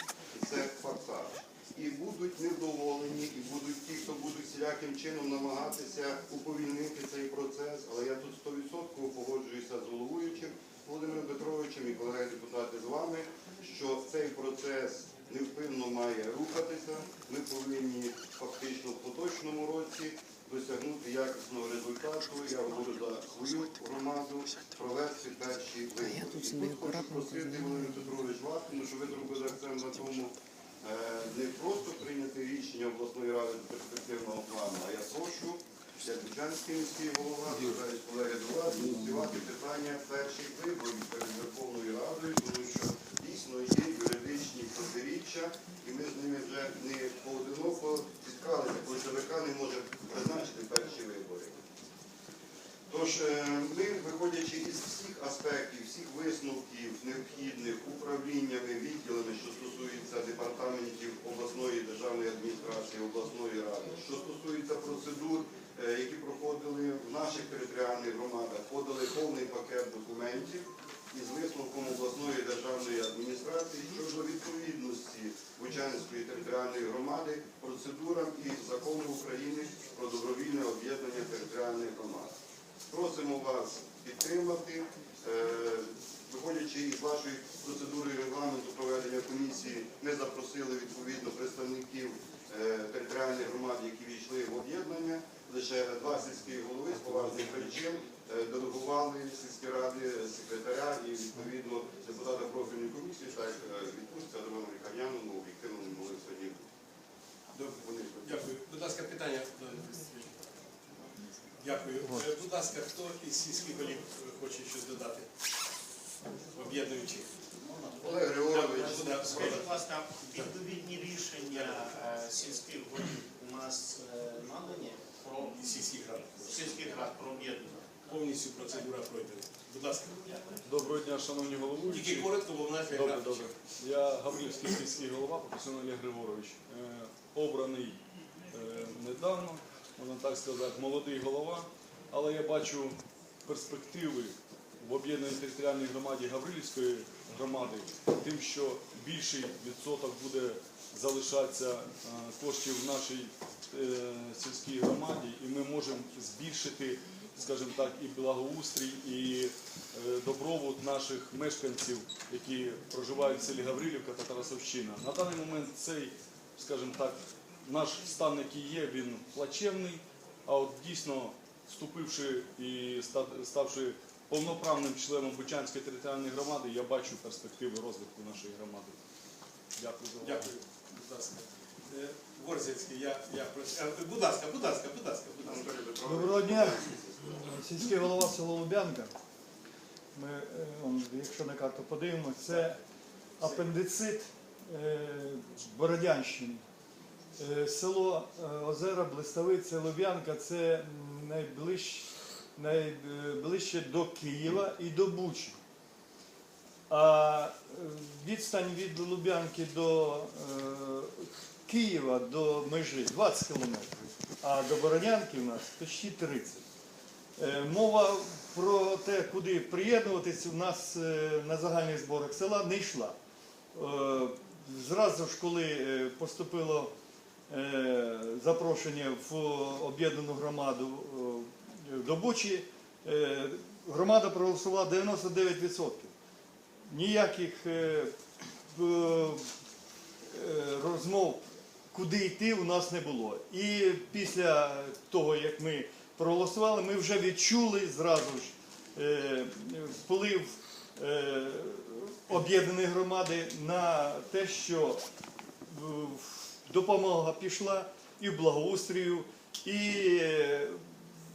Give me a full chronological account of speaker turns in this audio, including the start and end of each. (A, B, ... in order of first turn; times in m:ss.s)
0:00.3-0:51.5 A
0:52.9-1:22.3 A
1:22.9-1:46.6 A
1:47.5-1:50.3 B
1:47.8-1:48.4 A
1:51.6-1:55.3 B
1:56.5-1:57.3 B
1:58.0-1:59.6 A
1:58.0-2:05.6 C
1:58.5-2:02.0 B
2:05.3-2:07.4 B
2:06.4-2:07.9 C
2:08.0-2:10.5 B
2:10.6-2:12.3 D
2:11.9-2:13.5 B
2:12.9-2:18.0 D
2:18.5-2:59.0 D
2:59.8-3:00.5 D
3:00.2-3:05.7 B
3:05.4-3:07.5 A
3:06.1-3:06.8 E
3:07.4-3:09.1 E
3:10.2-3:12.8 E
3:13.4-3:16.6 E
3:17.4-3:25.6 E
3:26.9-3:36.6 E
3:37.4-3:43.2 E
3:43.7-3:46.9 E
3:47.5-3:56.1 E
3:56.9-3:58.1 E
3:58.7-3:59.5 E
4:00.3-4:15.0 E
4:15.7-4:20.8 E